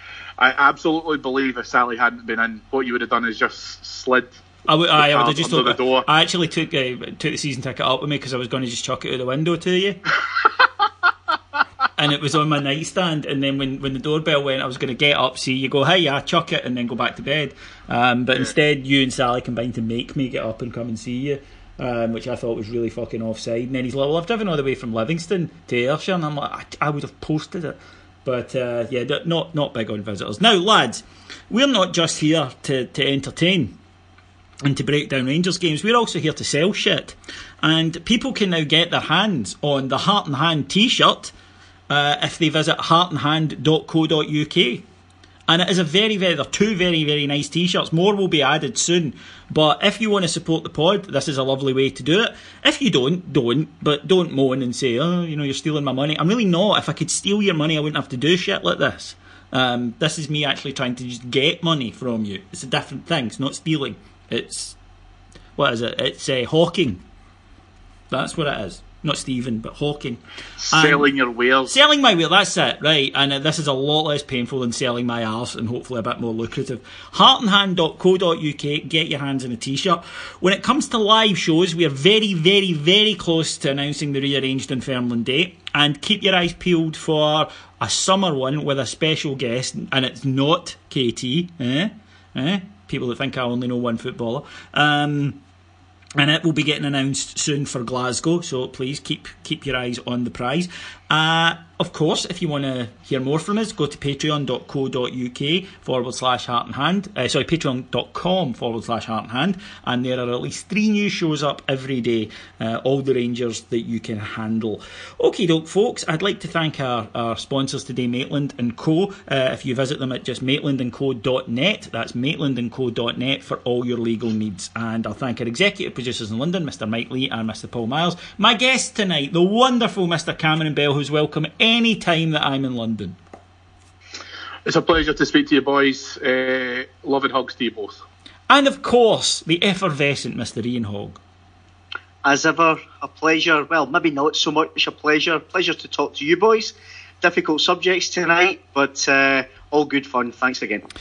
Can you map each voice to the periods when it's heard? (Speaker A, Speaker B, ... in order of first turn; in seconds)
Speaker A: 0.4-4.4, 5.0-6.1, 70.6-71.7, 134.7-138.0
Speaker B: 4.7-10.0, 11.9-33.8, 34.6-41.3, 41.9-44.8, 45.5-64.8, 65.5-67.0, 68.1-71.1, 71.7-95.4, 96.2-133.2, 138.5-141.2
Speaker C: 142.2-150.8